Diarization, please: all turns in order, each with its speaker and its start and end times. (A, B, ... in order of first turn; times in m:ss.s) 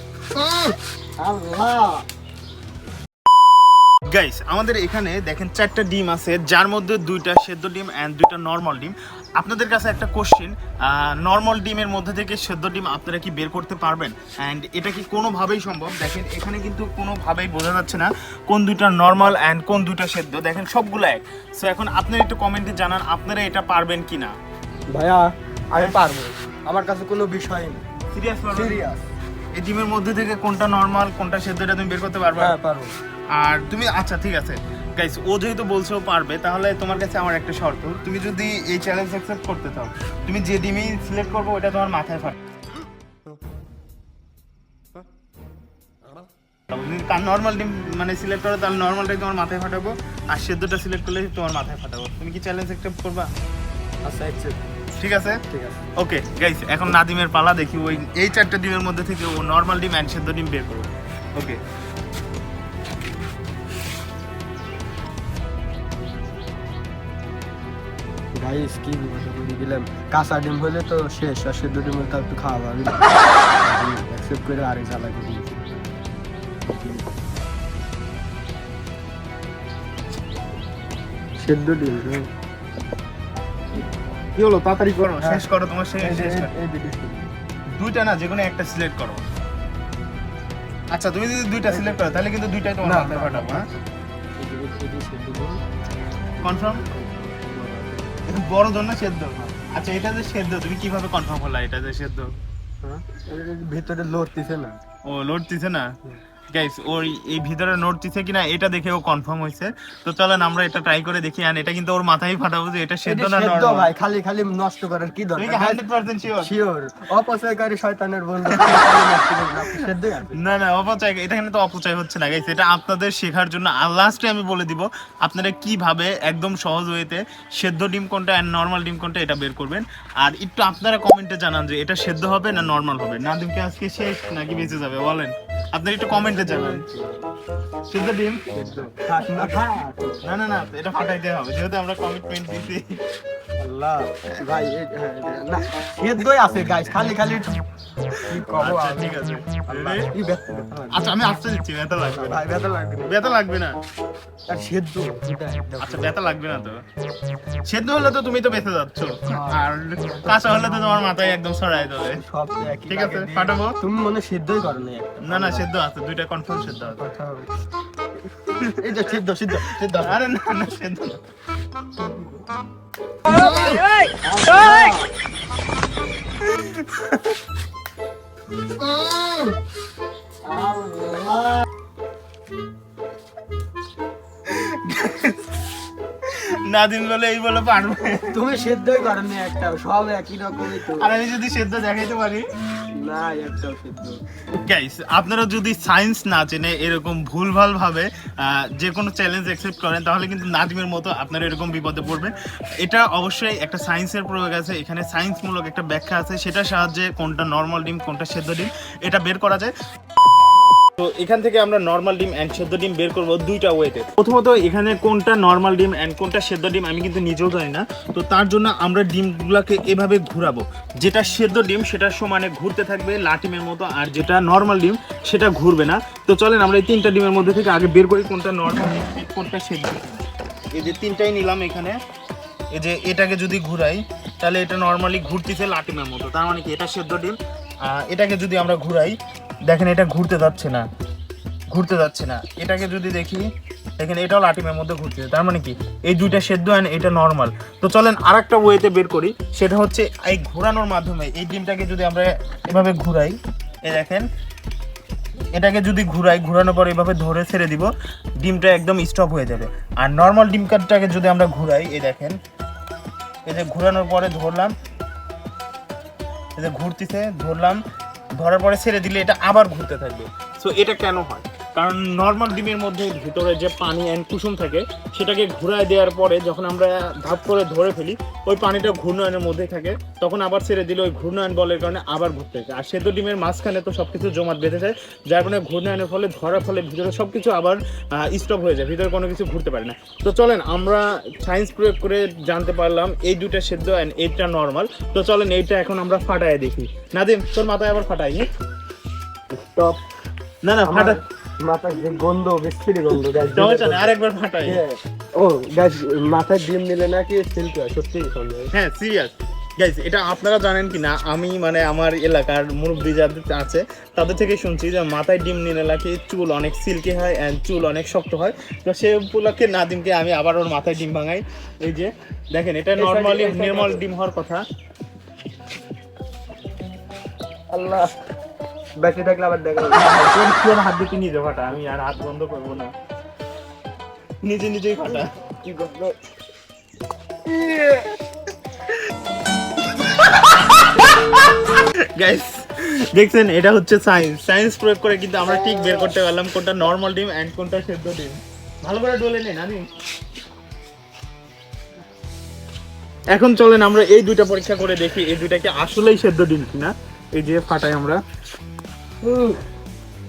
0:00.4-0:02.0 A
0:04.1-0:24.3 B
0:24.9-0:27.8 A
0:28.1-0:28.8 B
0:28.5-0:29.0 A
0:29.5-0:32.6 B
0:32.4-0:32.9 A
0:33.3-0:42.4 B
0:46.7-0:53.3 B
0:54.0-0:54.6 A
0:55.0-0:55.4 B
0:55.5-0:55.8 A
0:56.0-1:01.6 B
1:08.3-1:15.6 A
1:21.4-1:22.3 A
1:24.3-1:26.5 B
1:26.0-1:27.2 A
1:27.7-1:29.2 B
1:30.9-1:33.6 B
1:31.6-1:32.1 A
1:32.8-1:33.8 A
1:34.4-1:35.6 A
1:36.4-1:36.8 B
1:36.5-1:38.2 A
1:38.3-1:42.3 B
1:42.8-1:44.8 A
1:45.1-1:45.9 B
1:46.5-1:53.9 B
1:53.0-1:55.8 A
1:55.4-1:56.5 B
1:56.4-2:00.4 A
1:58.5-1:58.9 B
2:00.4-2:16.8 B
2:16.1-2:17.2 A
2:17.9-2:19.6 B
2:18.5-2:20.2 A
2:20.2-2:23.0 B
2:23.6-2:27.6 A
2:28.2-2:30.1 B
2:28.2-2:31.1 A
2:30.9-2:32.4 B
2:32.1-2:33.2 A
2:33.0-2:33.8 B
2:34.5-2:36.1 A
2:35.8-2:36.8 B
2:37.6-2:42.2 B
2:39.2-2:41.0 A
2:42.1-2:45.7 A
2:42.9-2:43.8 B
2:45.2-2:47.0 B
2:46.9-2:47.5 A
2:48.5-2:51.2 B
2:48.8-2:50.2 A
2:53.3-2:55.1 A
2:56.4-2:57.4 B
2:58.8-2:59.5 A
3:00.4-3:01.6 A
3:04.4-3:05.4 B
3:06.2-3:08.4 B
3:08.3-3:11.1 A
3:10.8-3:12.4 B
3:12.9-3:14.2 A
3:14.6-3:29.7 B
3:31.0-3:52.0 B
3:52.7-4:00.9 B
4:01.7-4:03.5 B
4:04.0-4:14.2 B
4:15.5-4:22.4 B
4:23.5-4:24.7 B
4:26.6-4:27.8 B
4:28.4-4:58.4 B
4:59.5-5:00.0 A
5:00.6-5:01.2 B
5:00.8-5:04.1 A
5:03.5-5:04.8 B
5:04.6-5:08.7 A
5:08.7-5:24.6 B
5:23.0-5:24.0 A
5:27.7-5:28.1 A
5:29.0-5:30.0 A
5:29.9-5:32.9 B
5:34.4-5:35.3 B
5:35.1-5:36.2 A
5:37.4-5:38.1 A
5:40.2-5:49.8 B
5:45.4-5:46.1 A
5:53.3-5:58.2 B
5:59.2-5:59.6 A